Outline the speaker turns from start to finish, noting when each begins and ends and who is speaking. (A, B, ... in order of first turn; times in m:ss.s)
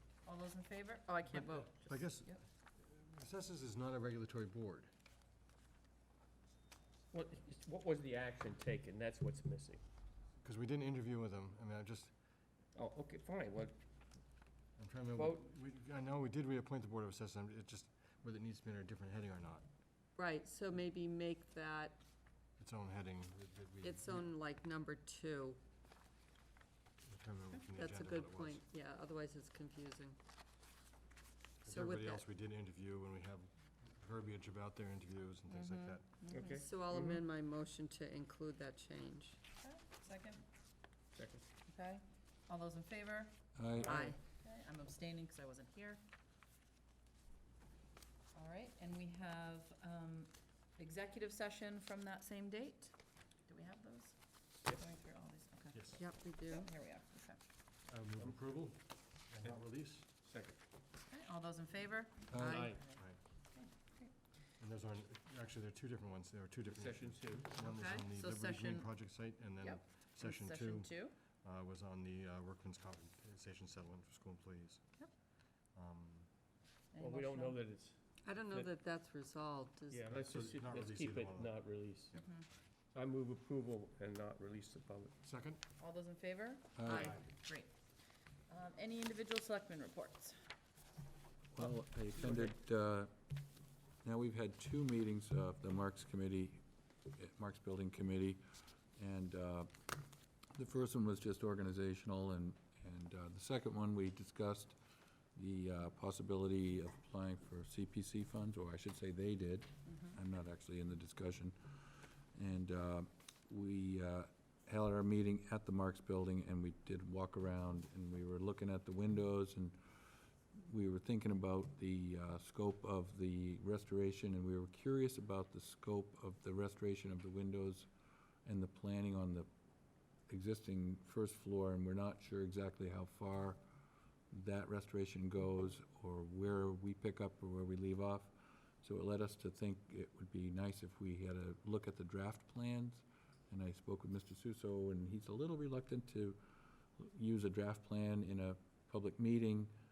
0:00.3-0:02.4 A
0:01.7-0:04.9 B
0:07.1-0:09.8 C
0:10.4-0:12.1 B
0:12.8-0:13.8 C
0:14.8-0:19.6 B
0:15.2-0:15.5 C
0:20.2-0:22.0 D
0:22.6-0:24.3 B
0:23.8-0:25.6 D
0:27.0-0:28.6 B
0:27.8-0:30.2 D
0:31.6-0:36.1 B
0:31.7-0:32.2 D
0:35.7-0:39.4 D
0:36.2-0:36.6 A
0:36.3-0:37.2 C
0:39.6-0:40.4 A
0:41.2-0:41.4 C
0:41.7-0:43.3 A
0:43.6-0:43.9 E
0:43.8-0:44.1 C
0:43.9-0:44.2 D
0:44.3-0:46.0 A
0:48.4-0:52.9 A
0:53.4-0:57.4 A
0:55.7-0:56.0 B
0:56.0-0:56.7 D
0:57.8-1:00.0 B
1:00.1-1:00.6 C
1:01.1-1:03.0 A
1:02.3-1:02.7 E
1:02.4-1:02.7 D
1:02.4-1:02.8 C
1:03.5-1:04.1 A
1:04.6-1:14.8 B
1:06.7-1:07.5 C
1:07.6-1:08.9 A
1:09.6-1:11.2 A
1:15.7-1:16.3 B
1:16.9-1:17.6 A
1:17.0-1:18.0 C
1:18.2-1:20.1 D
1:19.9-1:22.2 C
1:20.1-1:21.6 B
1:22.2-1:22.4 A
1:23.0-1:25.1 C
1:25.2-1:25.6 B
1:25.8-1:27.7 A
1:26.8-1:27.2 E
1:26.9-1:27.1 C
1:28.5-1:30.4 A
1:31.5-1:33.1 E
1:34.0-1:38.4 E
1:39.0-1:39.7 E
1:40.6-1:44.8 E
1:45.4-1:59.8 E
2:00.6-2:07.9 E
2:08.4-2:09.5 E
2:10.3-2:13.6 E
2:14.3-2:18.3 E
2:18.8-2:26.4 E
2:27.0-2:29.7 E